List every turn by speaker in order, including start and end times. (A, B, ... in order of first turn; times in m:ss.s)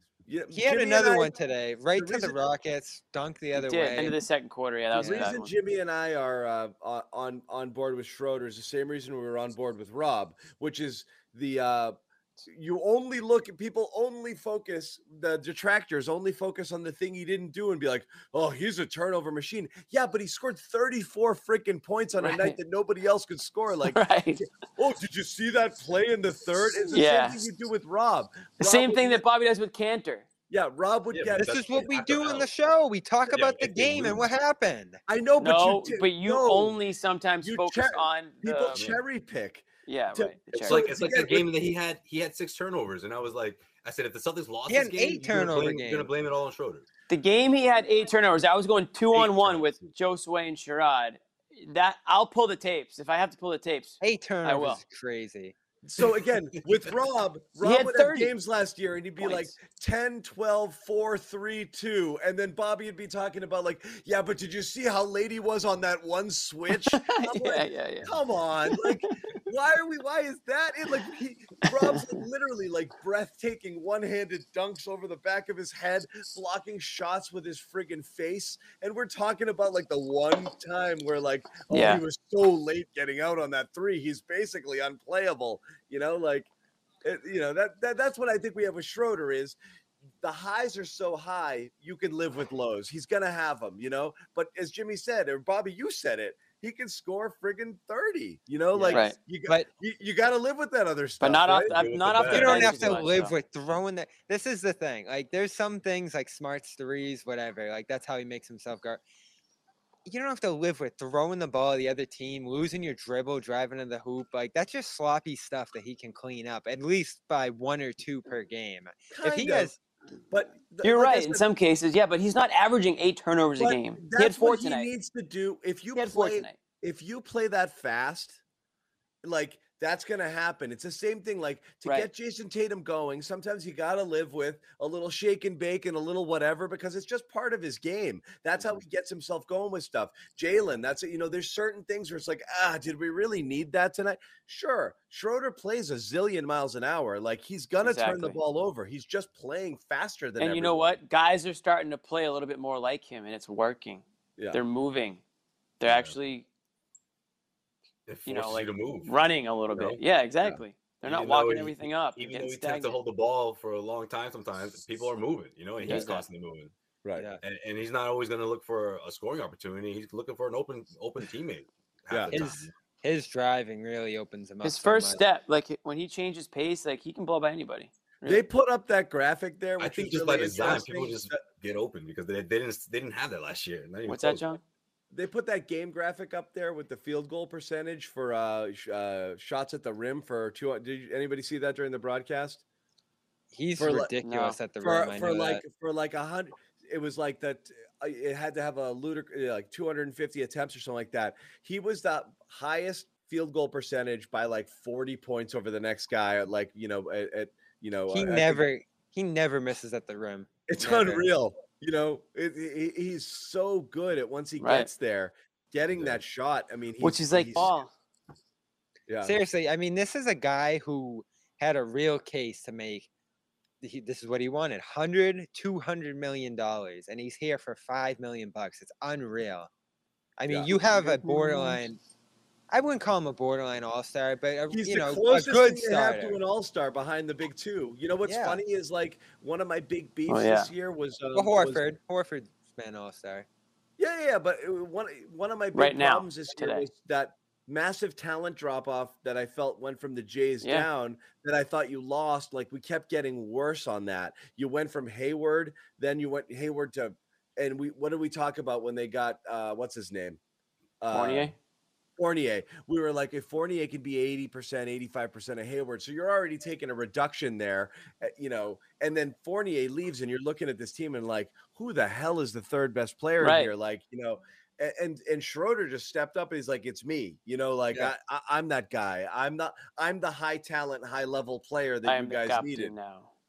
0:00.3-0:01.3 A
0:00.5-0:04.2 B
0:02.0-0:02.4 A
0:03.5-0:05.5 C
0:04.9-0:29.2 A
0:05.0-0:05.3 B
0:22.2-0:22.6 C
0:23.8-0:24.4 C
0:26.9-0:27.5 C
0:28.6-0:30.3 C
0:30.5-0:31.9 A
0:31.1-0:32.5 D
0:31.4-0:35.0 B
0:33.3-0:34.3 D
0:35.1-0:36.8 A
0:35.4-0:38.8 C
0:37.4-0:41.7 A
0:38.8-0:39.0 D
0:39.9-0:40.8 C
0:40.5-0:46.9 D
0:44.7-0:46.1 B
0:47.1-0:54.8 C
0:49.1-0:49.9 D
0:54.0-0:55.6 B
0:55.8-1:26.5 A
0:57.6-0:58.3 C
0:59.2-0:59.5 C
1:06.9-1:08.2 C
1:08.7-1:09.2 C
1:11.7-1:12.2 C
1:21.7-1:22.0 C
1:27.0-1:29.6 A
1:30.2-1:41.8 A
1:38.7-1:39.7 B
1:41.2-1:43.3 C
1:41.7-1:43.0 D
1:42.3-1:49.0 B
1:50.1-1:59.8 B
1:59.1-1:59.7 A
2:00.3-2:01.5 A
2:00.8-2:04.9 C
2:03.6-2:08.4 A
2:06.0-2:06.6 C
2:09.2-2:31.0 A
2:27.8-2:28.4 C
2:30.4-2:35.2 C
2:35.8-2:36.5 C
2:35.9-2:36.1 D
2:38.1-2:39.1 D
2:38.3-2:43.0 C
2:39.7-2:40.0 D
2:41.0-2:46.7 D
2:45.8-2:46.3 C
2:47.2-2:47.4 B
2:47.4-2:52.7 D
2:52.1-2:52.4 A
2:52.3-2:55.2 B
2:54.6-2:58.4 C
2:58.2-3:01.4 A
2:59.8-3:04.4 D
3:04.1-3:04.6 C
3:05.1-3:12.6 A
3:13.5-3:15.6 B
3:13.8-3:14.1 A
3:14.2-3:14.6 C
3:14.8-3:28.6 A
3:28.1-3:31.3 B
3:30.7-3:37.7 A
3:34.6-3:34.9 C
3:35.9-3:36.2 D
3:37.0-3:37.9 C
3:39.1-3:39.4 A
3:39.2-3:43.1 B
3:43.8-3:49.7 B
3:50.4-3:52.0 B
3:50.5-3:51.7 A
3:52.7-3:56.4 B
3:54.7-4:01.8 A
3:58.2-3:58.6 B
4:00.3-4:00.7 C
4:01.3-4:03.5 B
4:04.0-4:20.4 A
4:05.7-4:06.9 C
4:10.6-4:10.9 C
4:21.0-4:21.5 A
4:21.1-4:21.6 C
4:22.2-4:42.9 A
4:33.4-4:33.7 C
4:42.0-4:43.3 C